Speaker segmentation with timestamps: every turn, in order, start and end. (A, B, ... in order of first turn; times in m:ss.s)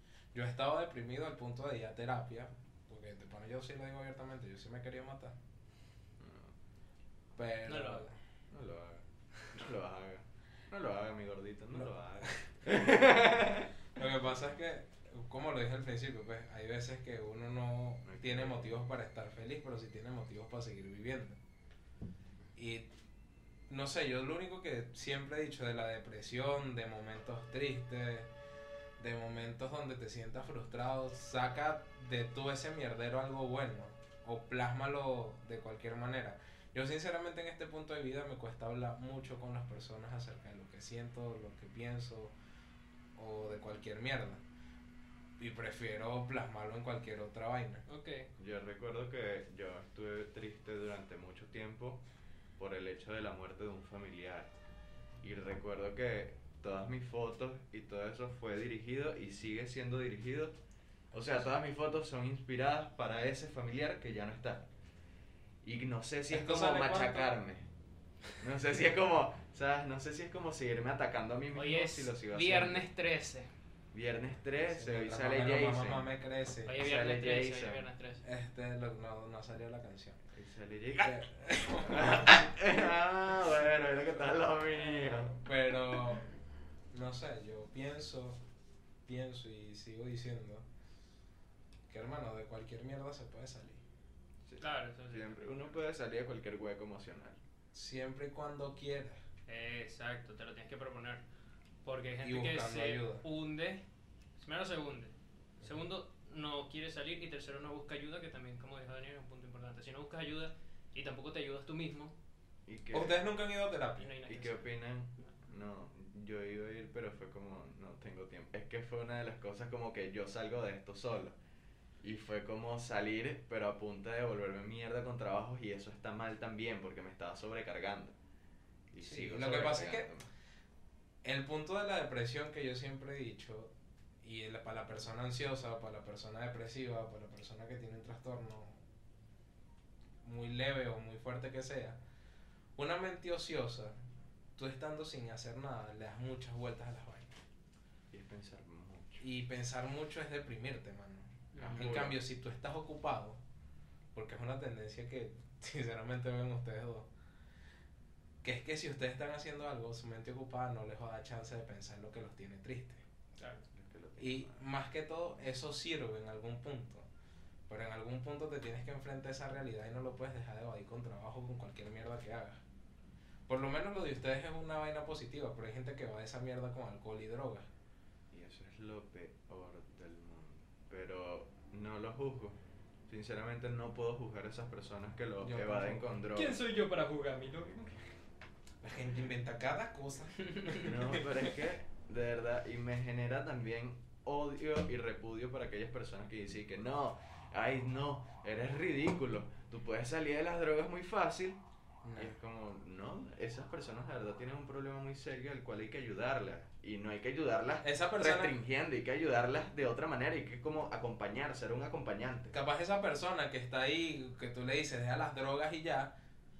0:00.3-0:05.4 A
0:06.2-0:06.5 B
0:07.4-0:08.2 A
0:07.7-0:08.1 C
0:08.5-0:13.7 B
0:11.7-0:12.5 A
0:13.9-0:21.4 A
0:18.0-0:18.7 B
0:22.6-0:22.9 A
0:23.7-0:28.3 A
0:29.0-0:42.3 A
0:43.1-0:44.4 A
0:45.4-0:47.8 A
0:47.9-0:48.3 C
0:48.4-0:52.0 B
0:52.6-0:54.5 B
0:55.2-1:00.6 B
1:01.1-1:04.6 B
1:05.6-1:07.7 B
1:06.3-1:07.3 A
1:08.4-1:12.8 B
1:11.5-1:13.5 C
1:13.9-1:16.1 B
1:14.7-1:16.8 A
1:16.6-1:18.2 C
1:16.8-1:17.8 B
1:18.2-1:20.2 A
1:20.3-1:21.2 B
1:21.0-1:22.5 A
1:21.8-1:25.4 B
1:25.3-1:26.3 A
1:26.9-1:28.4 A
1:29.0-1:30.6 A
1:31.9-1:33.8 A
1:34.5-1:37.4 B
1:34.6-1:35.8 C
1:37.7-1:39.2 A
1:39.5-1:41.2 C
1:41.8-1:43.8 C
1:42.2-1:43.2 A
1:44.4-1:52.1 C
1:52.7-1:53.2 B
1:52.9-1:54.1 A
1:54.0-1:54.7 C
1:54.2-2:01.4 B
2:02.0-2:08.2 B
2:08.9-2:10.3 B
2:09.0-2:10.1 A
2:11.2-2:13.7 A
2:14.2-2:18.8 A
2:20.2-2:22.0 A
2:22.8-2:24.0 A
2:24.6-2:27.3 A
2:28.1-2:29.2 B
2:29.2-2:33.4 A
2:31.5-2:32.0 C
2:31.6-2:32.2 B
2:34.1-2:37.1 A
2:38.4-2:43.0 A
2:43.4-2:43.6 C
2:43.7-2:44.6 B
2:44.2-2:47.1 A
2:47.7-2:52.6 A
2:53.5-2:57.7 A
2:58.3-3:02.6 B
3:03.1-3:06.6 B
3:05.4-3:06.2 A
3:06.3-3:07.9 C
3:08.8-3:11.2 A
3:10.6-3:10.8 C
3:10.8-3:21.6 B
3:22.0-3:22.3 A
3:22.2-3:32.5 B
3:27.8-3:28.5 A
3:32.5-3:36.1 A